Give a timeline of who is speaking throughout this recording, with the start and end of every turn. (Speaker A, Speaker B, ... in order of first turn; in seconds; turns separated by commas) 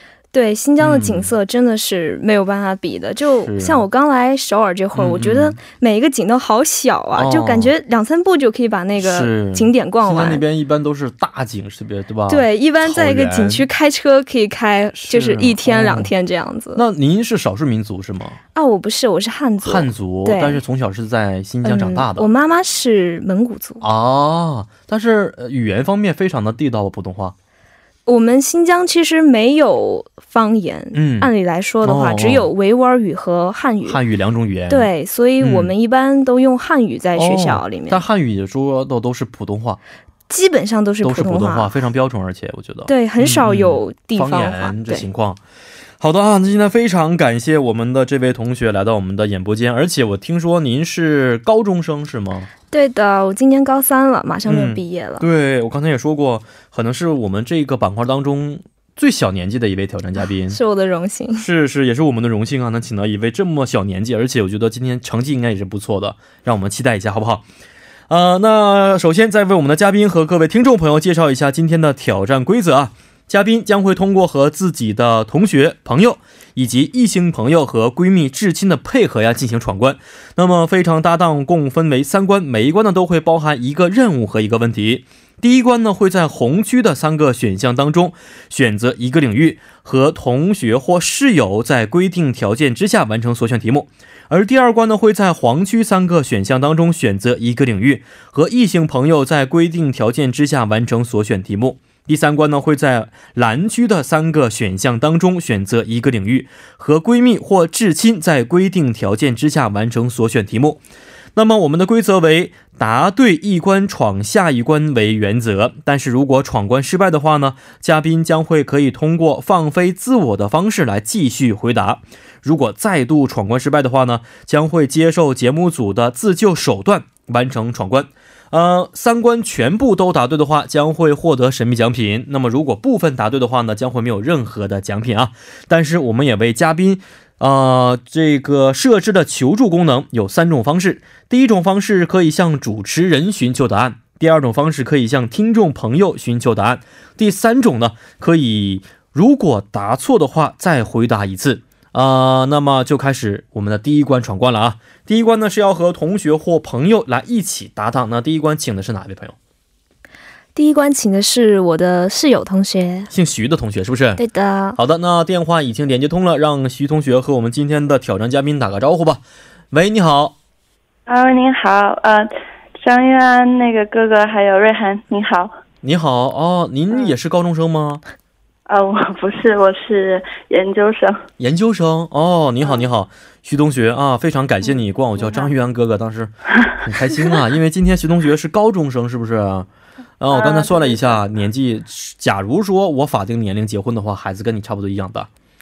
Speaker A: 0.3-10.4, Speaker B: 0.8-1.3, Speaker B: 3.4-3.8, Speaker B: 4.9-5.6, Speaker B: 7.2-7.7, Speaker B: 9.0-13.7, Speaker A: 12.3-16.8, Speaker B: 14.9-16.1, Speaker B: 16.8-18.4, Speaker A: 18.6-20.6, Speaker B: 19.6-22.3, Speaker A: 21.6-23.8, Speaker B: 23.8-27.4, Speaker A: 28.1-34.0, Speaker B: 30.9-31.3, Speaker B: 31.8-32.5, Speaker B: 33.9-34.9, Speaker A: 34.7-38.0, Speaker B: 35.4-35.7, Speaker B: 37.2-39.8, Speaker A: 40.3-41.7, Speaker B: 41.0-45.4, Speaker A: 42.9-45.1, Speaker B: 46.0-52.5, Speaker A: 52.7-55.3, Speaker B: 54.5-60.6, Speaker A: 60.5-61.5, Speaker B: 61.4-67.5, Speaker B: 68.1-110.8, Speaker B: 111.3-159.4, Speaker A: 160.6-163.1, Speaker B: 163.1-164.2, Speaker A: 164.2-164.8, Speaker B: 164.8-170.3, Speaker C: 171.1-175.5, Speaker B: 175.8-178.0, Speaker C: 178.7-181.2, Speaker B: 181.4-189.7, Speaker C: 184.7-185.5, Speaker B: 190.2-195.3, Speaker C: 190.3-191.2